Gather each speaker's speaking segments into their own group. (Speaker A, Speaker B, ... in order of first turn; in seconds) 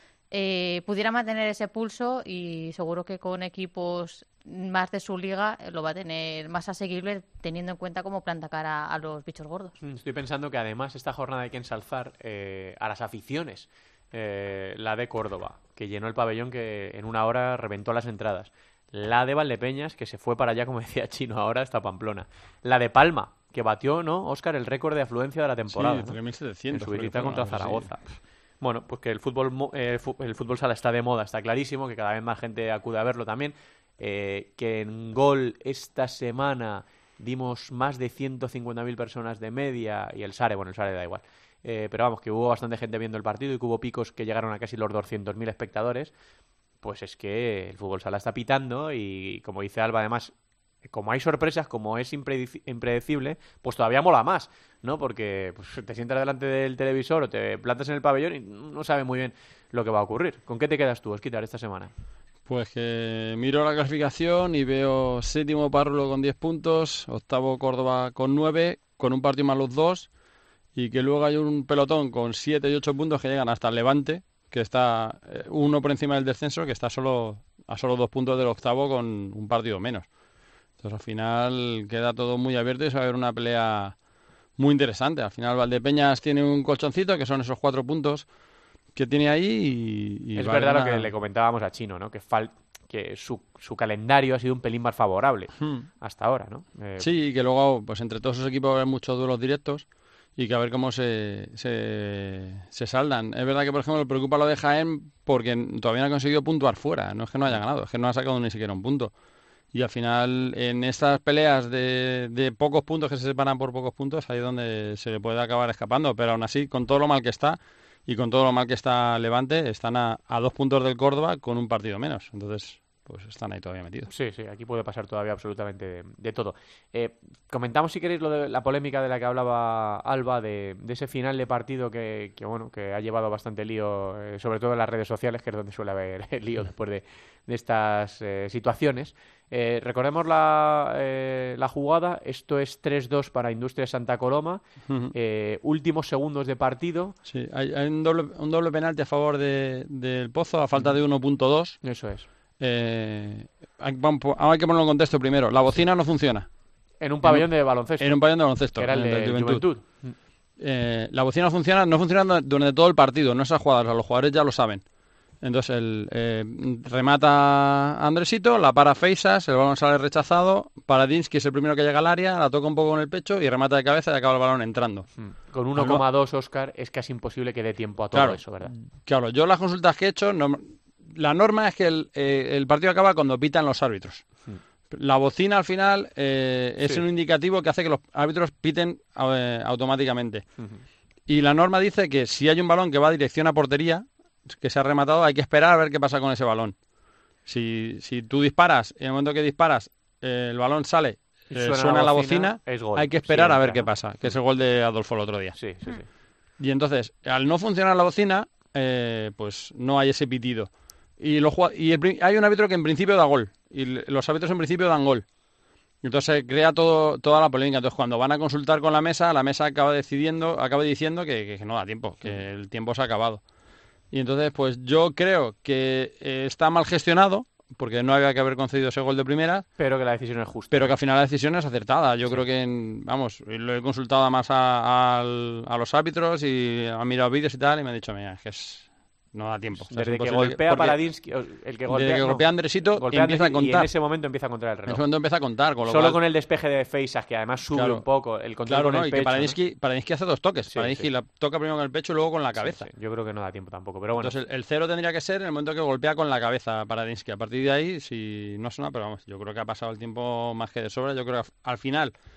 Speaker A: 0.3-9.7
Speaker B: 9.8-28.1, 28.6-46.1, 46.8-50.3, 50.8-61.9, 90.4-97.1, 124.1-147.2, 151.8-152.3, 157.0-160.2, 175.2-178.7, 190.6-190.8, 201.5-203.9, 205.6-206.1, 229.8-230.9, 239.9-245.0, 245.8-249.6, 250.7-251.1, 252.6-254.4
Speaker C: 25.7-27.9, 62.5-70.1, 70.7-80.1, 80.8-84.0, 84.5-88.3, 88.9-91.1, 95.6-95.9, 97.0-109.1, 109.7-124.1, 144.9-145.1, 147.2-151.8, 152.6-156.5, 158.0-159.6, 160.6-164.9, 165.4-175.1, 175.8-176.0, 178.1-178.4, 179.0-184.3, 184.9-190.4, 191.3-196.8, 197.4-205.6, 206.6-215.2, 216.0-223.4, 224.1-229.7, 230.7-241.0, 241.9-243.9, 244.9-246.2, 247.7-248.0, 248.7-252.9, 254.2-262.1